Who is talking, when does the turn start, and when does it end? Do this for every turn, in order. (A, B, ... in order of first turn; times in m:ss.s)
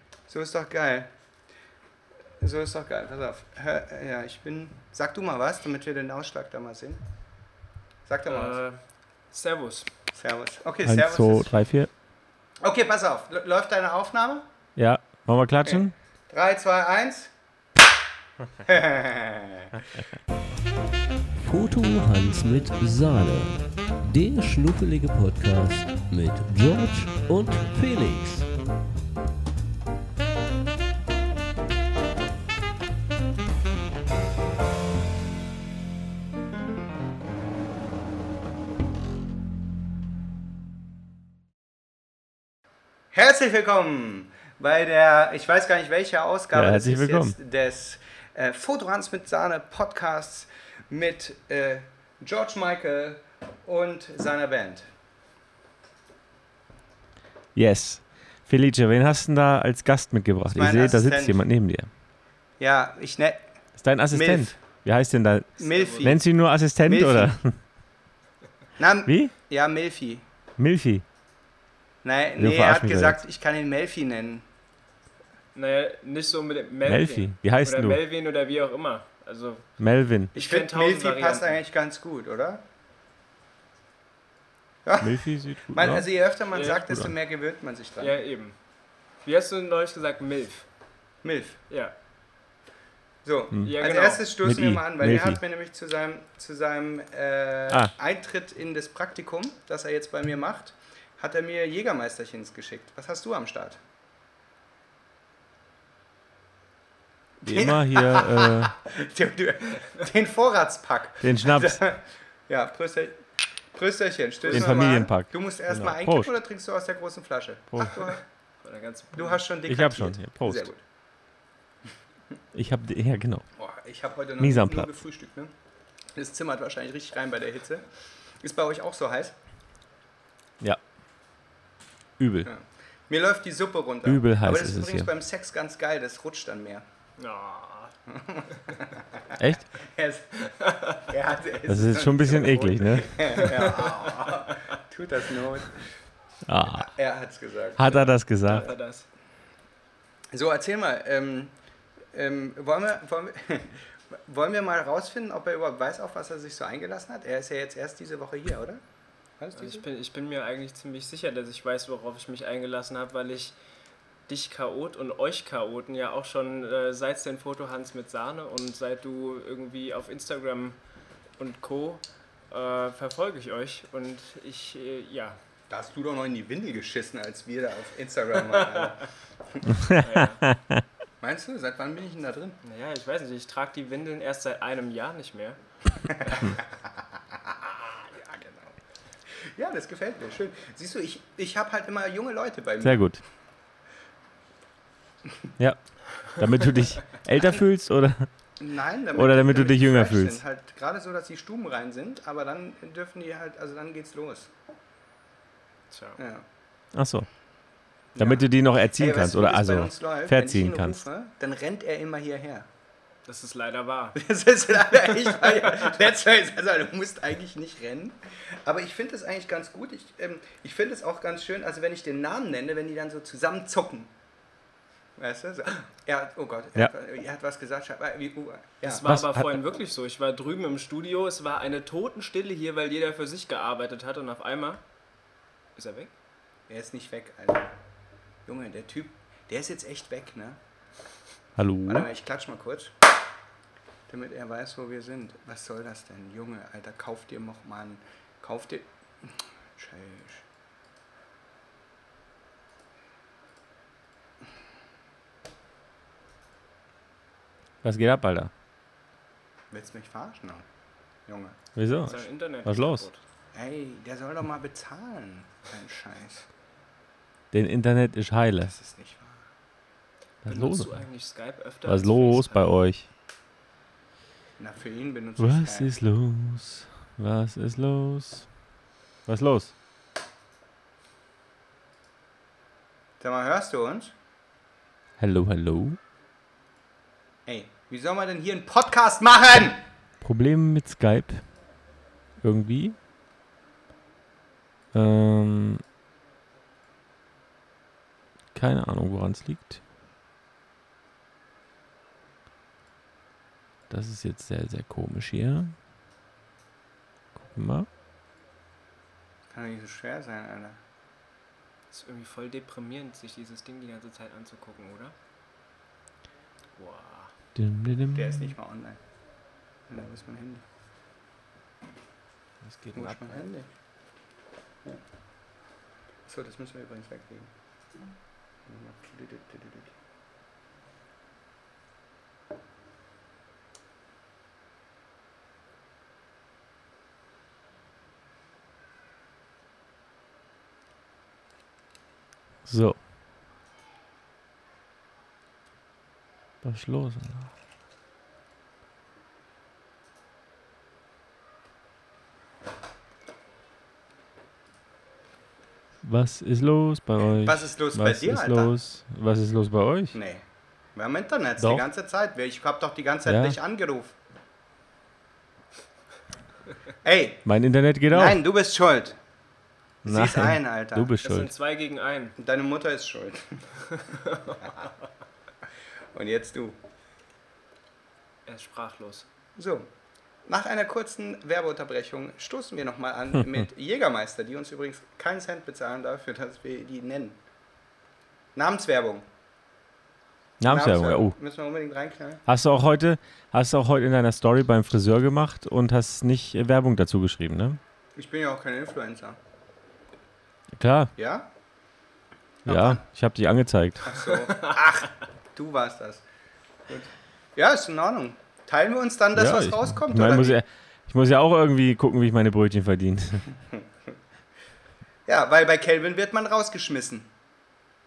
0:00.3-0:01.1 A
0:02.4-0:07.0 A
0:08.1-0:08.6 A
0:08.3-0:08.8 B
0:09.3-0:09.9 B
0:10.2-0:11.6 A
0:10.8-0:11.9 C
0:12.6-0:14.5 A
0:14.8-0:15.9 C
0:15.7-0:17.3 A
0:18.6-0:19.7 A
0:21.4-0:28.5 D
0:43.1-0:54.9 A
0:46.5-0:47.4 C
0:57.6-1:01.9 C
1:00.6-1:01.4 A
1:02.6-1:03.4 A
1:03.8-1:07.6 C
1:04.1-1:04.6 A
1:05.6-1:06.2 A
1:05.6-1:06.1 B
1:06.8-1:07.4 A
1:08.8-1:10.2 A
1:09.1-1:09.3 C
1:10.6-1:11.0 C
1:12.0-1:14.4 A
1:12.4-1:13.2 C
1:15.6-1:19.7 B
1:16.9-1:18.0 C
1:19.8-1:20.3 C
1:20.3-1:21.6 B
1:20.3-1:22.6 A
1:24.9-1:28.2 A
1:25.0-1:26.1 C
1:26.5-1:27.0 B
1:28.0-1:28.6 B
1:29.2-1:30.7 B
1:31.2-1:31.6 A
1:33.2-1:43.8 A
1:33.6-1:34.3 B
1:34.4-1:35.4 C
1:47.4-1:53.2 A
1:47.4-1:48.7 C
1:51.2-1:51.8 C
1:53.7-1:58.2 A
1:54.4-1:54.9 B
1:54.5-1:56.3 C
1:58.6-1:59.5 B
1:59.1-2:00.8 A
1:59.7-2:00.7 C
2:02.5-2:03.4 C
2:03.6-2:05.5 A
2:04.4-2:04.9 C
2:06.2-2:07.8 A
2:08.4-2:09.4 A
2:12.2-2:12.5 C
2:12.4-2:16.8 A
2:14.1-2:15.1 C
2:17.2-2:17.9 B
2:18.1-2:25.8 A
2:19.4-2:19.6 C
2:20.5-2:21.0 B
2:21.7-2:23.4 C
2:23.4-2:24.4 B
2:26.5-2:26.9 C
2:26.6-2:28.1 A
2:27.8-2:28.7 C
2:27.9-2:29.1 B
2:30.3-2:31.5 A
2:32.1-2:38.8 A
2:39.4-2:39.8 A
2:39.6-2:43.6 B
2:44.3-2:50.8 B
2:51.4-2:55.4 B
2:55.7-2:59.7 A
2:58.4-2:58.9 B
2:59.7-3:00.8 C
3:00.0-3:00.5 B
3:01.2-3:02.6 A
3:02.6-3:05.6 B
3:06.1-3:08.8 A
3:09.6-3:13.0 A
3:12.8-3:13.2 C
3:15.6-3:18.3 C
3:18.6-3:24.5 A
3:19.2-3:20.4 C
3:25.9-3:26.2 B
3:26.2-3:26.4 A
3:26.9-3:27.3 C
3:28.2-3:32.7 A
3:28.2-3:31.0 C
3:33.3-3:34.2 B
3:34.2-3:44.1 A
3:34.9-3:35.9 B
3:45.2-3:49.0 A
3:48.8-3:54.8 B
3:49.0-3:49.5 C
3:55.8-3:56.1 B
3:56.7-3:57.7 A
3:58.5-4:00.6 A
4:01.6-4:02.1 C
4:01.9-4:03.0 A
4:04.1-4:10.4 A
4:17.8-4:18.5 C
4:19.7-4:20.6 A
4:21.3-4:21.6 A
4:21.8-4:23.1 C
4:22.0-4:23.2 B
4:23.5-4:26.5 A
4:27.5-4:28.7 C
4:28.6-4:29.4 A
4:30.4-4:30.9 C
4:30.5-4:32.8 B
4:31.9-4:33.1 C
4:34.6-4:35.9 A
4:35.4-4:38.5 C
4:39.3-4:39.7 C
4:43.2-4:44.1 A
4:45.2-4:46.0 C
4:47.5-4:49.8 A
4:50.2-4:51.4 C
4:52.4-4:53.0 C
4:54.9-4:55.8 C
4:58.6-4:59.8 C
5:03.9-5:05.7 C
5:07.4-5:07.9 C
5:09.5-5:10.8 A
5:11.9-5:15.1 B
5:16.8-5:17.3 B
5:17.6-5:18.5 C
5:18.1-5:19.0 A
5:19.9-5:20.6 A
5:22.6-5:23.4 C
5:22.9-5:23.7 A
5:26.3-5:27.5 A
5:28.7-5:29.9 A
5:42.7-5:43.0 C
5:46.6-5:47.5 C
5:56.0-6:00.2 C
5:57.4-5:58.7 A
6:00.1-6:00.4 A
6:01.0-6:04.2 A
6:03.3-6:03.6 C
6:07.0-6:07.5 A
6:07.4-6:08.4 C
6:08.1-6:09.2 A
6:10.0-6:11.5 C
6:10.0-6:11.1 A
6:11.2-6:12.4 B
6:12.4-6:13.6 A
6:14.0-6:14.7 B
6:16.1-6:16.8 A
6:18.5-6:19.3 B
6:19.6-6:19.9 A
6:20.5-6:27.4 A
6:28.6-6:29.2 A
6:30.6-6:31.4 C
6:30.7-6:32.4 A
6:32.5-6:37.8 C
6:38.2-6:39.4 A
6:40.7-6:41.1 C
6:41.2-6:41.5 A
6:42.6-6:44.1 C
6:42.7-6:43.0 A
6:44.1-6:46.2 A
6:46.9-6:50.6 A
6:49.3-6:53.5 C
6:55.3-6:57.3 A